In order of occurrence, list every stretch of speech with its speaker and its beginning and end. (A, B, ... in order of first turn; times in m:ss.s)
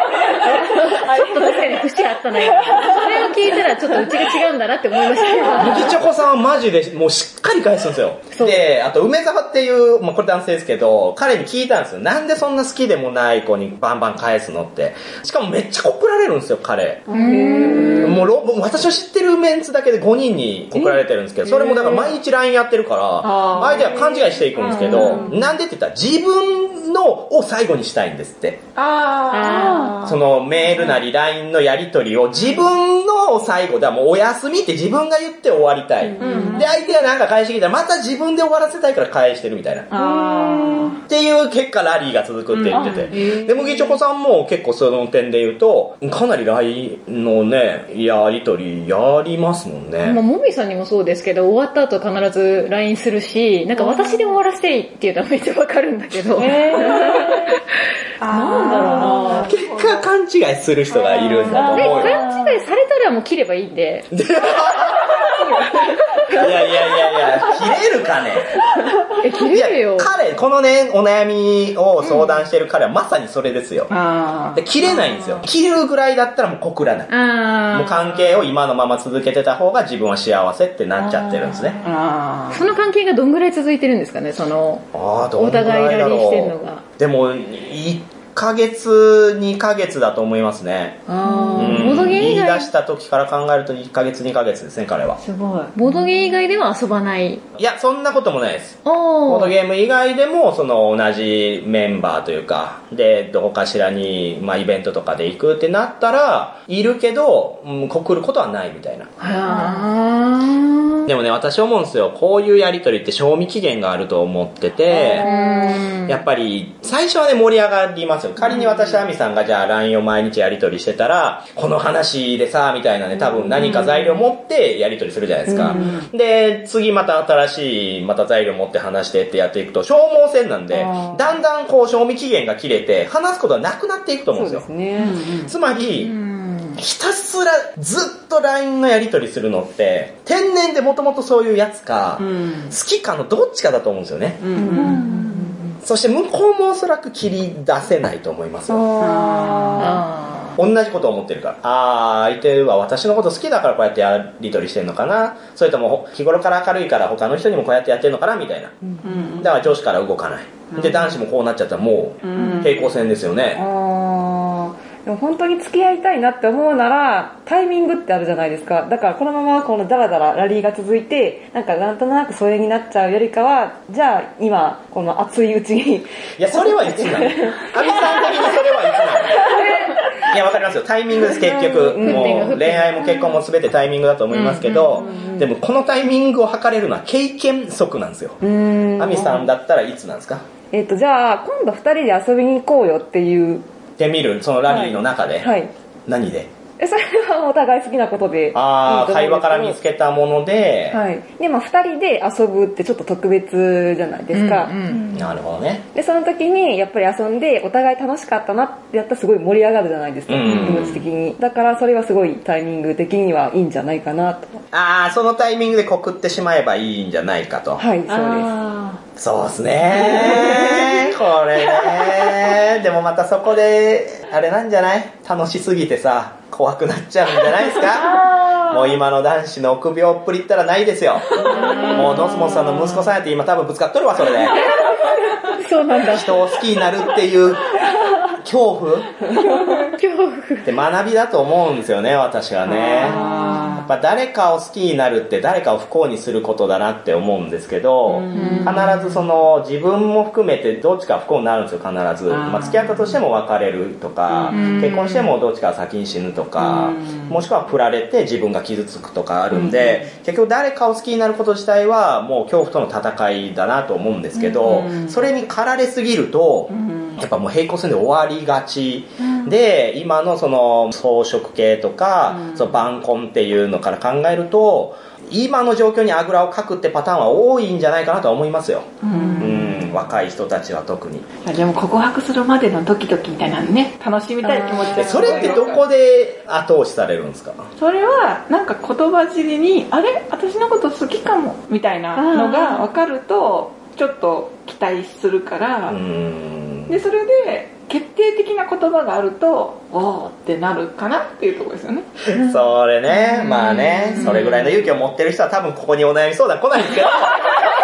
0:00.7-0:06.0 A
0:01.4-0:01.7 B
0:02.7-0:03.1 C
0:05.6-0:17.1 D
0:17.1-0:18.2 A
0:17.3-0:18.1 E
0:17.3-0:18.0 B
0:17.9-0:28.6 D
0:23.2-0:24.1 A
0:23.6-0:25.4 C
0:28.8-0:31.0 C
0:29.3-0:30.0 A
0:29.4-0:29.9 E
0:30.0-0:39.9 D
0:32.4-0:32.7 C
0:36.2-0:36.7 E
0:36.2-0:36.8 C
0:39.9-0:41.0 C
0:39.9-0:41.0 E
0:41.1-0:50.2 D
0:42.5-0:43.8 C
0:42.7-0:43.4 E
0:50.0-0:57.3 A
0:56.4-0:57.3 E
0:57.0-0:57.3 C
0:58.2-1:00.1 C
0:58.3-0:59.5 A
0:58.6-0:59.5 E
0:59.4-1:02.2 D
1:01.1-1:04.1 A
1:01.5-1:02.6 E
1:04.1-1:05.1 D
1:04.8-1:07.3 A
1:06.3-1:08.6 D
1:09.2-1:10.1 A
1:09.3-1:13.9 D
1:12.0-1:12.4 A
1:13.9-1:14.8 C
1:14.5-1:17.1 D
1:17.1-1:18.2 A
1:17.7-1:21.8 D
1:21.2-1:21.5 A
1:21.8-1:22.7 C
1:22.5-1:26.8 A
1:24.9-1:35.2 D
1:31.1-1:32.7 A
1:31.3-1:31.8 E
1:35.2-1:35.8 E
1:35.8-1:37.4 A
1:37.6-1:49.1 D
1:38.8-1:39.5 A
1:49.2-1:51.1 A
1:51.1-1:55.3 D
1:54.9-1:56.2 A
1:55.2-1:55.8 B
1:56.0-2:14.7 D
2:05.5-2:05.8 B
2:05.6-2:06.1 C
2:10.7-2:11.4 B
2:14.3-2:15.2 B
2:15.0-2:15.5 C
2:15.4-2:16.2 D
2:16.0-2:16.8 A
2:16.8-2:24.4 D
2:22.2-2:22.7 C
2:24.4-2:25.5 C
2:24.6-2:25.0 B
2:24.7-2:25.1 E
2:25.8-2:28.9 D
2:28.7-2:30.0 B
2:29.0-2:30.0 C
2:29.8-2:30.6 A
2:30.6-2:38.8 D
2:39.0-2:39.6 C
2:39.4-2:43.6 D
2:40.8-2:41.1 C
2:42.2-2:43.0 C
2:43.5-2:57.8 B
2:56.4-2:59.6 D
2:59.4-3:00.0 B
3:00.3-3:08.4 D
3:01.3-3:02.8 B
3:02.0-3:03.1 A
3:04.3-3:05.0 A
3:05.1-3:05.4 C
3:08.4-3:09.5 B
3:09.0-3:10.4 D
3:10.7-3:13.7 B
3:14.0-3:15.5 D
3:14.7-3:15.7 B
3:16.1-3:16.5 D
3:16.8-3:19.8 B
3:18.5-3:21.0 D
3:20.9-3:24.8 B
3:24.3-3:25.1 A
3:25.1-3:25.8 D
3:25.9-3:34.6 B
3:30.3-3:31.0 D
3:34.7-3:37.8 D
3:37.8-3:38.6 B
3:38.1-3:39.0 E
3:39.2-3:54.6 D
3:51.4-3:53.0 A
3:55.6-3:56.5 A
3:56.1-3:57.7 D
3:58.4-3:59.1 D
3:59.8-4:00.7 A
4:00.6-4:03.2 D
4:02.7-4:03.9 C
4:03.8-4:38.9 D
4:08.1-4:09.2 C
4:08.3-4:08.9 A
4:12.3-4:13.2 C
4:14.3-4:14.7 C
4:14.5-4:15.3 A
4:16.6-4:17.4 C
4:19.5-4:20.1 C
4:24.4-4:25.2 C
4:26.7-4:27.2 C
4:39.0-4:39.9 C
4:39.1-4:39.8 E
4:39.4-4:41.3 D
4:41.4-4:45.8 C
4:44.4-4:45.4 E
4:44.9-4:47.7 D
4:47.8-4:56.0 C
4:52.2-4:52.9 E
4:55.9-4:57.0 D
4:56.9-5:02.1 C
5:02.3-5:07.5 D
5:04.2-5:04.7 C